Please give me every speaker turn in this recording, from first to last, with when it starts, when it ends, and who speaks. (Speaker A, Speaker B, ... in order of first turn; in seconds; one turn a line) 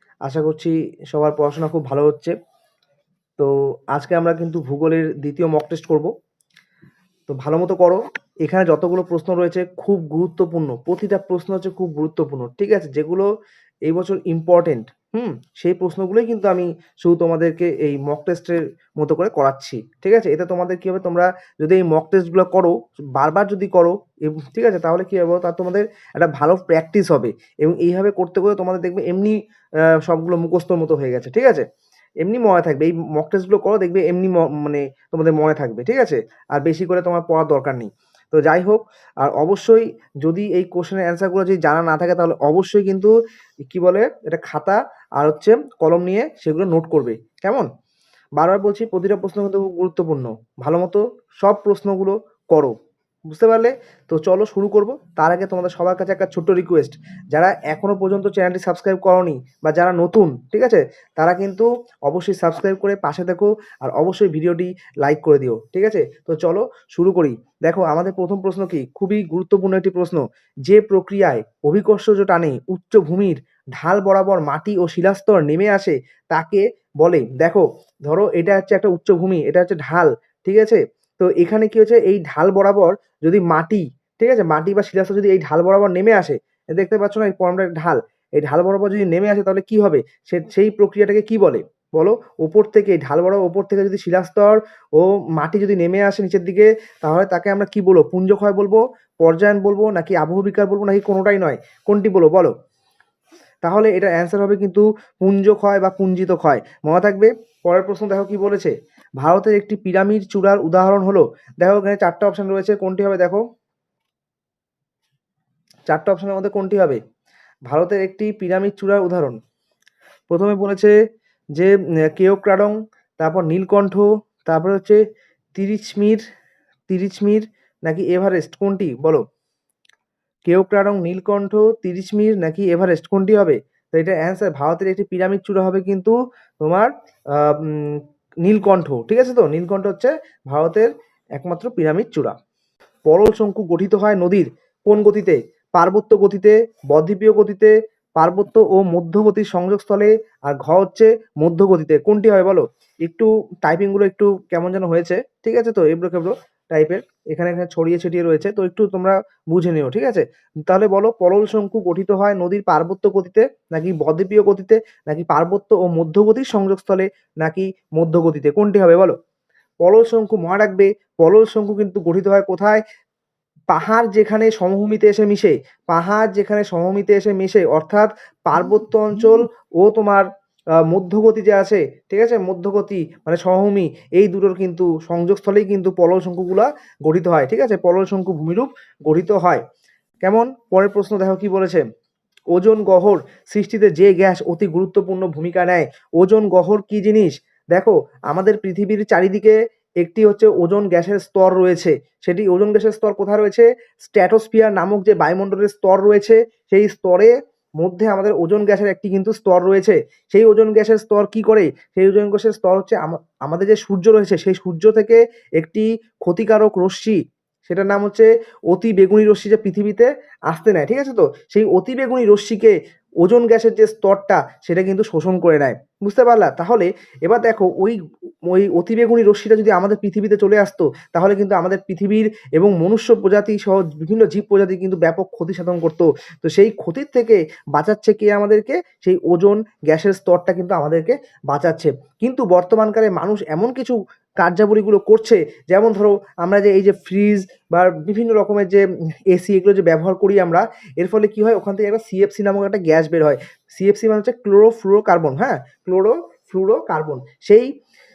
Speaker A: 0.2-2.3
Speaker A: 3.4-6.1
Speaker A: 7.3-13.3
Speaker A: 13.9-31.6
Speaker A: 32.2-43.1
Speaker A: 43.7-47.7
Speaker A: 48.4-52.7
Speaker A: 53.3-102.5
Speaker A: 103.6-113.4
Speaker A: 115.9-117.0
Speaker A: 117.7-119.4
Speaker A: 120.3-120.9
Speaker A: 121.5-125.0
Speaker A: 125.6-126.2
Speaker A: 126.9-129.2
Speaker A: 130.4-142.3
Speaker A: 143.1-169.1
Speaker A: 169.8-172.8
Speaker A: 173.7-180.2
Speaker A: 180.8-189.6
Speaker A: 190.2-191.8
Speaker A: 192.5-257.7